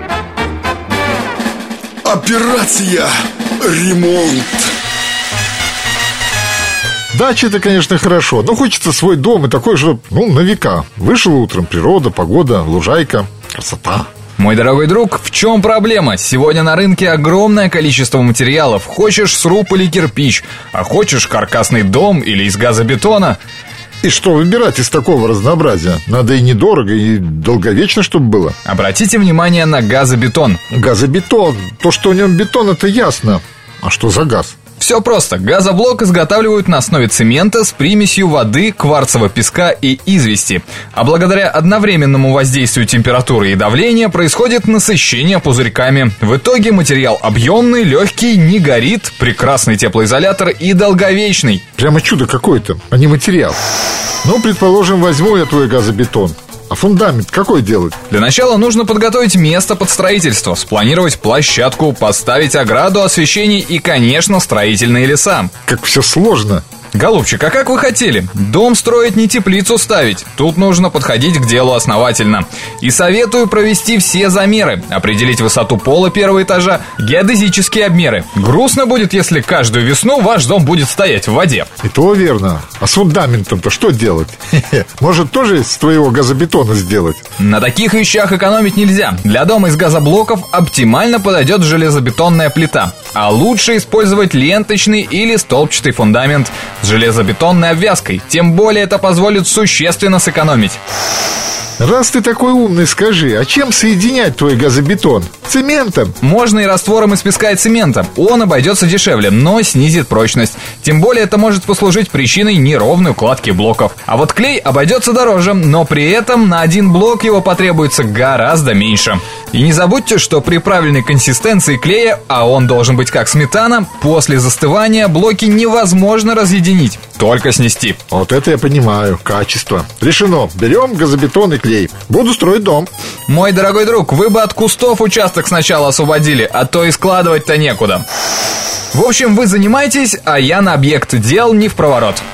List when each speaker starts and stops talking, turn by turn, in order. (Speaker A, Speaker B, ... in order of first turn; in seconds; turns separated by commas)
Speaker A: 2.0-3.1, Speaker A: 3.6-4.6, Speaker A: 7.1-14.1, Speaker B: 14.4-23.4, Speaker A: 24.0-28.6, Speaker B: 28.6-30.6, Speaker A: 30.7-34.5, Speaker B: 34.8-51.6, Speaker A: 51.8-53.6, Speaker A: 54.2-58.0, Speaker B: 58.1-65.5, Speaker A: 65.7-66.6, Speaker B: 66.9-81.7, Speaker A: 81.8-87.2, Speaker B: 87.4-100.8, Speaker A: 101.8-106.2, Speaker B: 106.2-128.0, Speaker A: 128.1-132.9, Speaker B: 133.3-138.0, Speaker B: 138.9-142.2